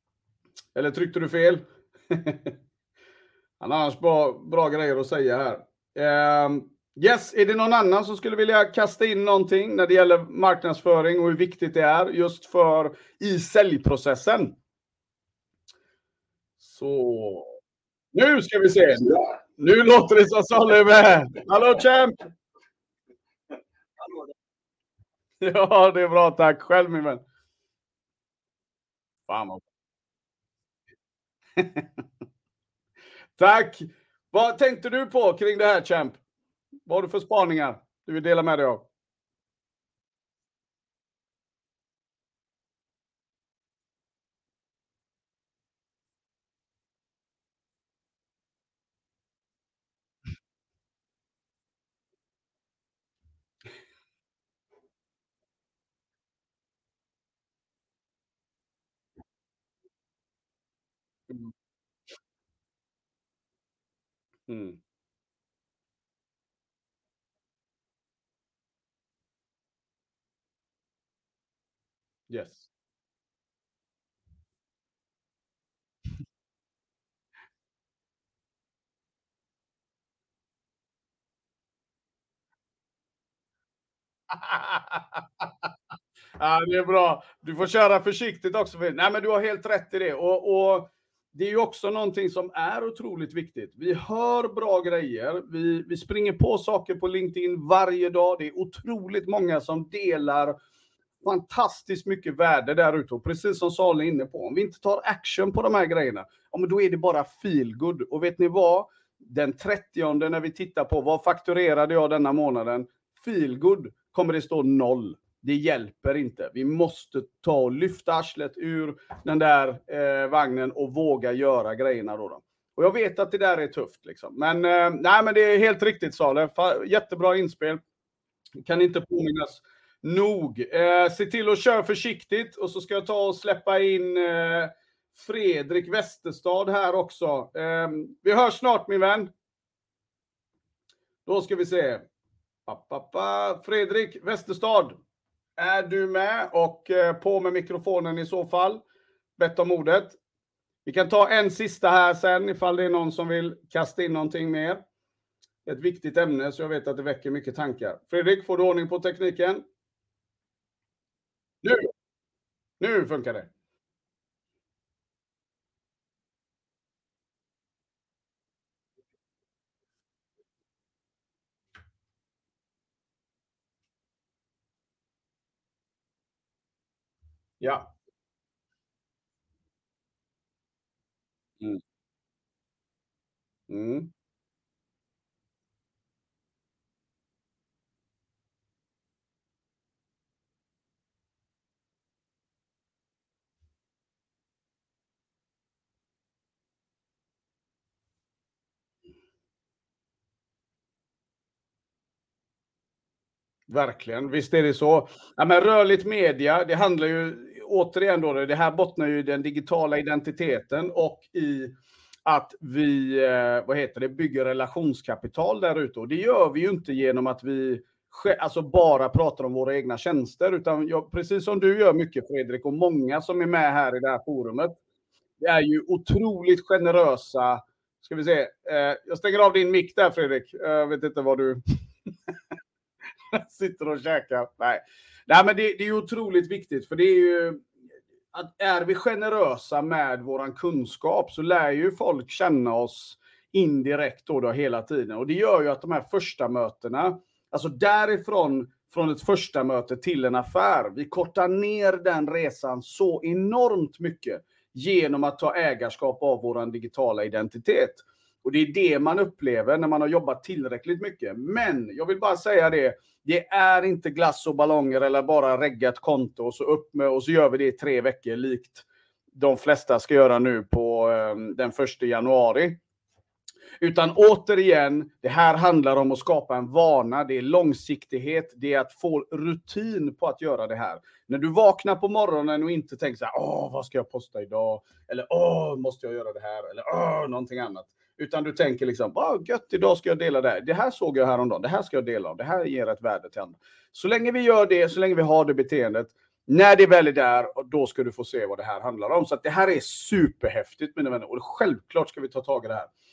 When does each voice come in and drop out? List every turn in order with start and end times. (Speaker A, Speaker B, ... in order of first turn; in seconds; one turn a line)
Speaker A: 0.7-2.5
Speaker A: 3.6-14.6
Speaker A: 16.6-17.6
Speaker A: 18.1-22.3
Speaker A: 25.4-27.2
Speaker A: 29.3-29.6
Speaker A: 31.6-31.9
Speaker A: 33.4-36.2
Speaker A: 36.9-38.9
Speaker A: 64.5-64.8
Speaker A: 72.3-72.7
Speaker A: 84.3-85.7
Speaker A: 86.4-100.5
Speaker A: 101.2-127.8
Speaker A: 128.6-139.3
Speaker A: 141.2-142.1
Speaker A: 142.7-145.0
Speaker A: 145.6-148.8
Speaker A: 149.4-150.2
Speaker A: 150.8-154.8
Speaker A: 155.6-159.6
Speaker A: 161.6-161.9
Speaker A: 162.8-163.5
Speaker A: 177.6-177.9
Speaker A: 183.7-184.1
Speaker A: 203.7-211.7
Speaker A: 212.2-224.8
Speaker A: 225.4-231.6
Speaker A: 233.3-237.6
Speaker A: 238.3-272.8
Speaker A: 273.8-302.9